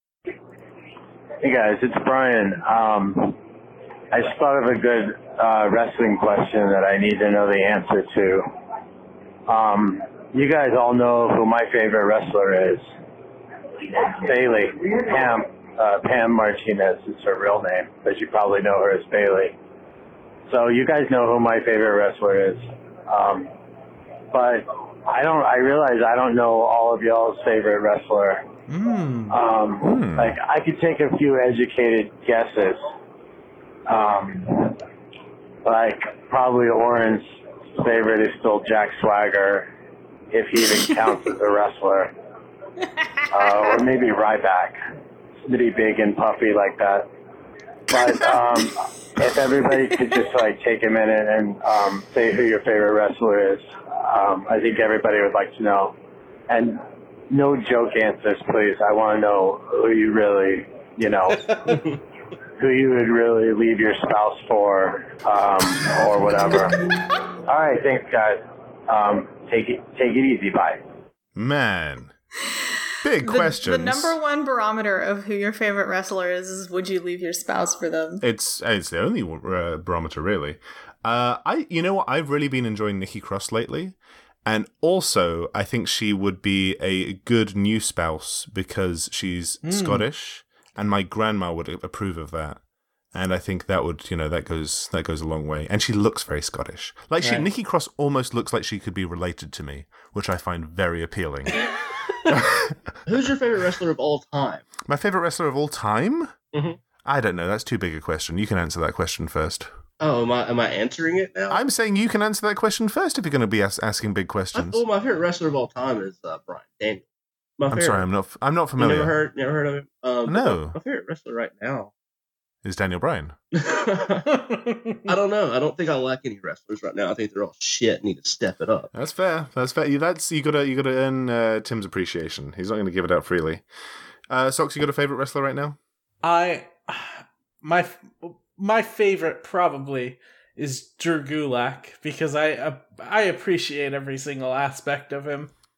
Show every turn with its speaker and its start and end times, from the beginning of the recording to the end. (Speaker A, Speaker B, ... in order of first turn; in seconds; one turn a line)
Speaker A: 1.4-3.4
Speaker A: 4.1-8.5
Speaker A: 9.5-12.9
Speaker A: 13.9-19.6
Speaker A: 20.5-23.5
Speaker A: 24.3-28.4
Speaker B: 28.7-29.4
Speaker A: 29.3-32.8
Speaker C: 29.8-30.3
Speaker A: 33.9-34.8
Speaker A: 35.6-39.7
Speaker A: 40.3-42.1
Speaker A: 43.3-44.8
Speaker A: 45.5-47.1
Speaker A: 47.9-56.0
Speaker A: 56.5-61.8
Speaker A: 62.6-66.9
Speaker A: 67.5-70.8
Speaker C: 71.4-72.1
Speaker C: 73.0-74.2
Speaker D: 73.2-78.2
Speaker C: 78.2-92.6
Speaker B: 89.6-90.0
Speaker C: 93.1-101.7
Speaker C: 102.3-102.8
Speaker E: 103.1-104.7
Speaker C: 104.9-106.3
Speaker E: 106.5-106.8
Speaker C: 107.0-109.7
Speaker E: 110.0-111.6
Speaker C: 111.5-114.8
Speaker E: 114.5-117.1
Speaker E: 117.6-118.0
Speaker C: 117.7-119.2
Speaker E: 118.8-121.9
Speaker C: 120.3-120.8
Speaker C: 122.6-123.4
Speaker E: 123.5-124.3
Speaker B: 124.5-125.0
Speaker E: 125.1-128.9
Speaker C: 128.9-133.6
Speaker C: 134.3-135.8
Speaker B: 136.2-145.5